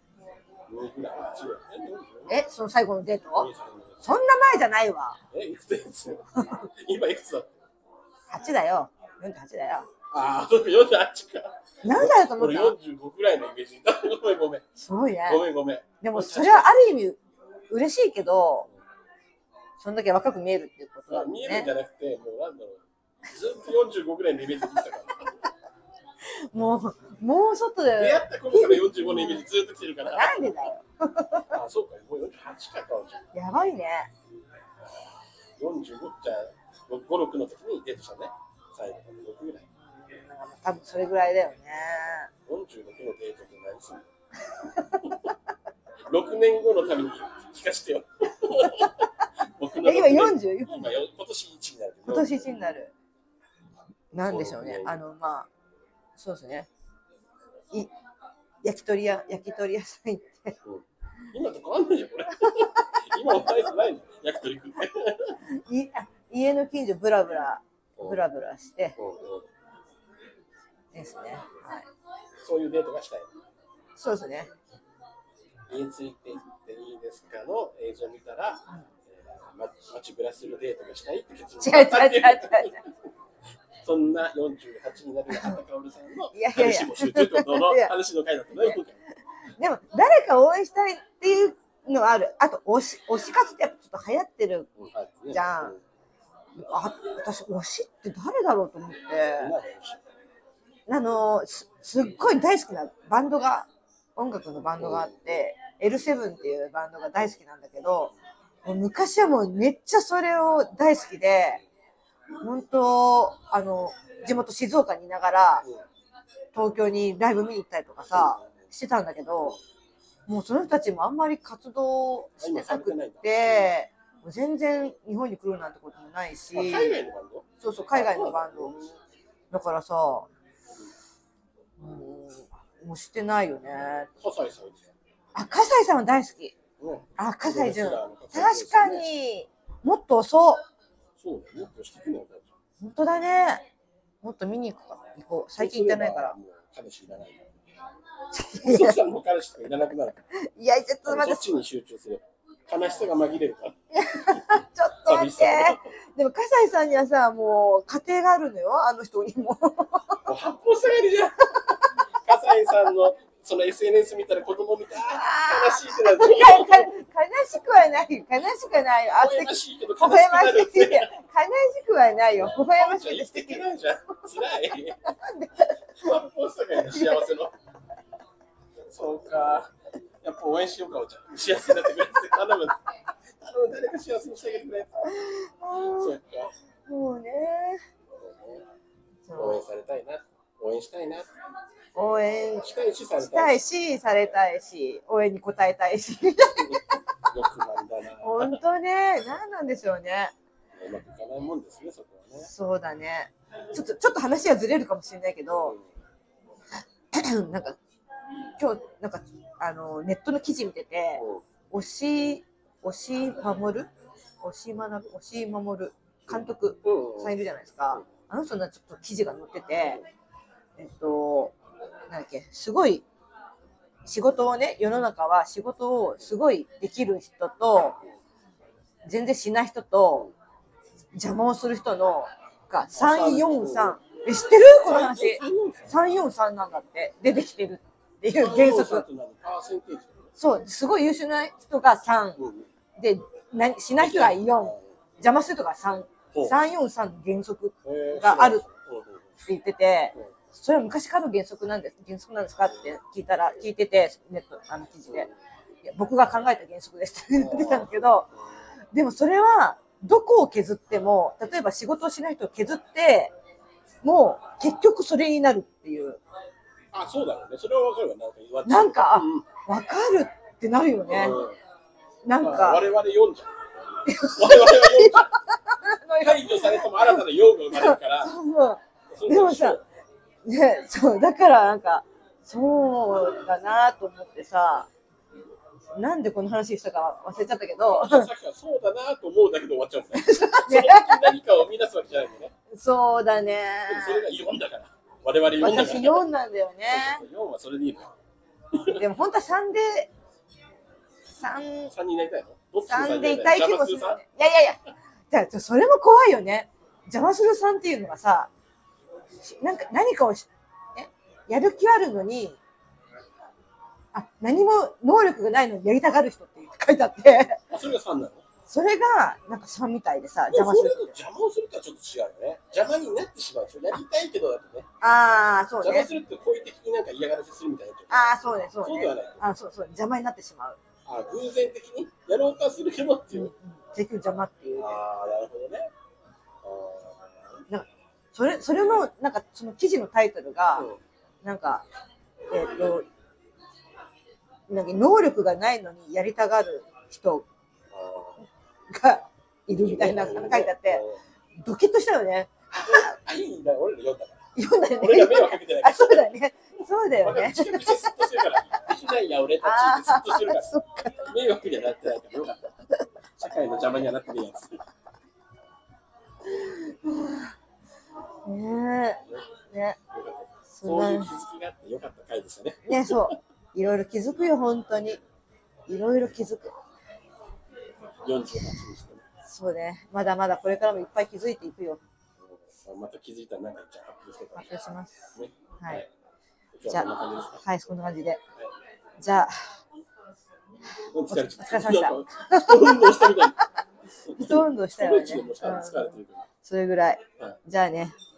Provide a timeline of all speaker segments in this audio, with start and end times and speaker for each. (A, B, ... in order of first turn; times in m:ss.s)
0:00.7-0:02.3 A
0:02.3-0:03.5 B
0:03.3-0:04.1 A
0:04.0-0:05.2 B
0:05.3-0:07.6 A
0:06.4-0:06.7 B
0:08.3-0:09.9 B
0:10.1-0:14.6 A
0:11.8-0:12.8 B
0:14.8-0:15.4 B
0:15.3-0:16.8 A
0:16.0-0:17.2 B
0:17.7-0:18.7 B
0:19.8-0:21.7 B
0:21.1-0:25.4 A
0:26.5-0:29.4 B
0:28.0-0:30.6 A
0:30.0-0:31.5 B
0:31.5-0:33.2 A
0:33.3-0:34.1 B
0:35.6-0:39.6 A
0:39.9-0:42.3 B
0:42.5-0:44.1 A
0:46.1-0:52.5 A
0:49.8-0:50.9 B
0:52.1-0:52.9 B
0:54.1-0:55.5 B
0:54.2-0:55.0 A
0:56.2-0:56.7 B
0:58.6-1:00.5 B
1:00.6-1:05.4 A
1:05.6-1:09.0 B
1:09.0-1:09.5 A
1:10.9-1:11.8 B
1:12.4-1:13.3 A
1:14.0-1:14.5 B
1:15.7-1:22.9 A
1:21.6-1:22.8 B
1:23.8-1:28.9 A
1:25.3-1:25.6 B
1:26.3-1:27.9 B
1:29.6-1:34.7 B
1:34.8-1:35.8 A
1:35.3-1:35.7 B
1:36.6-1:39.5 B
1:39.4-1:40.0 A
1:40.9-1:48.1 B
1:44.8-1:45.2 A
1:48.6-1:51.6 B
1:52.4-1:55.6 B
1:56.5-1:59.6 B
1:58.1-1:58.5 A
2:00.3-2:07.0 B
2:02.4-2:03.7 A
2:06.5-2:08.9 A
2:07.6-2:08.7 B
2:09.5-2:10.3 B
2:11.8-2:14.1 B
2:14.2-2:14.9 A
2:15.3-2:16.5 B
2:16.8-2:19.0 A
2:17.2-2:20.6 B
2:21.2-2:22.5 A
2:22.8-2:23.6 B
2:24.2-2:26.3 B
2:25.6-2:27.5 A
2:28.3-2:29.0 B
2:28.6-2:30.2 A
2:30.3-2:31.5 B
2:31.0-2:33.7 A
2:33.9-2:40.2 B
2:35.0-2:35.9 A
2:40.2-2:46.9 A
2:45.0-2:53.6 B
2:49.1-2:51.1 A
2:52.3-2:55.0 A
2:55.1-2:55.7 B
2:56.0-2:57.5 A
2:56.8-2:57.3 B
2:58.9-3:02.8 A
3:03.4-3:04.9 A
3:05.0-3:06.2 B
3:05.9-3:06.5 A
3:06.9-3:07.8 B
3:08.2-3:08.6 A
3:09.2-3:09.6 B
3:09.3-3:11.3 A
3:12.0-3:12.7 B
3:12.6-3:13.6 A
3:13.2-3:16.9 B
3:16.6-3:18.6 A
3:18.2-3:20.3 B
3:20.8-3:22.5 A
3:22.4-3:25.8 B
3:27.1-3:27.8 B
3:28.6-3:33.9 B
3:31.2-3:31.4 A
3:34.4-3:40.0 B
3:36.3-3:37.3 A
3:40.8-3:41.5 B
3:42.1-3:43.0 B
3:44.0-3:48.0 B
3:49.1-3:50.3 B
3:51.2-3:59.0 B
3:52.9-3:54.0 A
3:54.8-3:55.9 A
3:58.3-4:00.3 A
4:00.4-4:02.4 B
4:02.4-4:02.7 A
4:03.0-4:08.6 B
4:04.0-4:04.9 A
4:07.8-4:09.3 A
4:09.4-4:15.3 B
4:15.1-4:15.3 A
4:15.8-4:18.2 B
4:17.3-4:18.3 A
4:18.9-4:23.3 B
4:24.0-4:26.2 B
4:26.9-4:29.4 A
4:28.6-4:31.4 B
4:31.1-4:31.6 A
4:32.2-4:32.8 B
4:32.4-4:33.5 A
4:34.0-4:39.8 B
4:34.4-4:35.3 A
4:36.2-4:38.3 A
4:39.1-4:39.8 A
4:40.4-4:44.9 B
4:46.0-4:48.3 B
4:47.9-4:52.5 A
4:50.1-4:51.4 B
4:52.7-4:54.2 B
4:53.9-4:56.2 A
4:55.6-4:57.2 B
4:56.9-4:58.1 A
4:58.7-4:59.0 A
4:58.9-5:00.1 B
5:01.4-5:01.9 B
5:01.9-5:04.2 A
5:02.9-5:04.8 B
5:05.3-5:08.5 B
5:09.4-5:12.6 B
5:14.1-5:17.6 B
5:17.7-5:18.4 A
5:18.7-5:21.1 B
5:20.5-5:24.8 A
5:25.0-5:26.1 B
5:25.8-5:29.4 A
5:28.1-5:30.8 B
5:31.0-5:33.5 A
5:33.3-5:35.0 B
5:34.8-5:35.9 A
5:36.6-5:37.5 A
5:37.7-5:40.9 B
5:41.4-5:41.8 B
5:42.5-5:43.0 B
5:44.7-5:47.4 B
5:47.9-5:48.4 A
5:48.9-5:51.0 B
5:49.7-5:51.2 A
5:51.6-5:53.1 B
5:52.8-5:54.4 A
5:54.6-5:58.2 B
5:55.0-5:56.3 A
5:57.2-6:00.7 A
5:59.6-6:01.3 B
6:01.2-6:02.6 A
6:03.4-6:04.8 A
6:06.5-6:07.4 B
6:08.4-6:10.0 B
6:10.1-6:13.3 A
6:10.7-6:11.3 B
6:12.9-6:15.2 B
6:15.9-6:16.7 B
6:18.2-6:19.2 A
6:19.4-6:22.0 B
6:22.4-6:24.7 A
6:24.6-6:26.0 B
6:25.3-6:26.1 A
6:26.8-6:27.6 A
6:27.6-6:28.4 B
6:29.2-6:29.5 B
6:31.1-6:33.6 A
6:31.3-6:33.5 B
6:34.2-6:36.4 A
6:34.4-6:38.1 B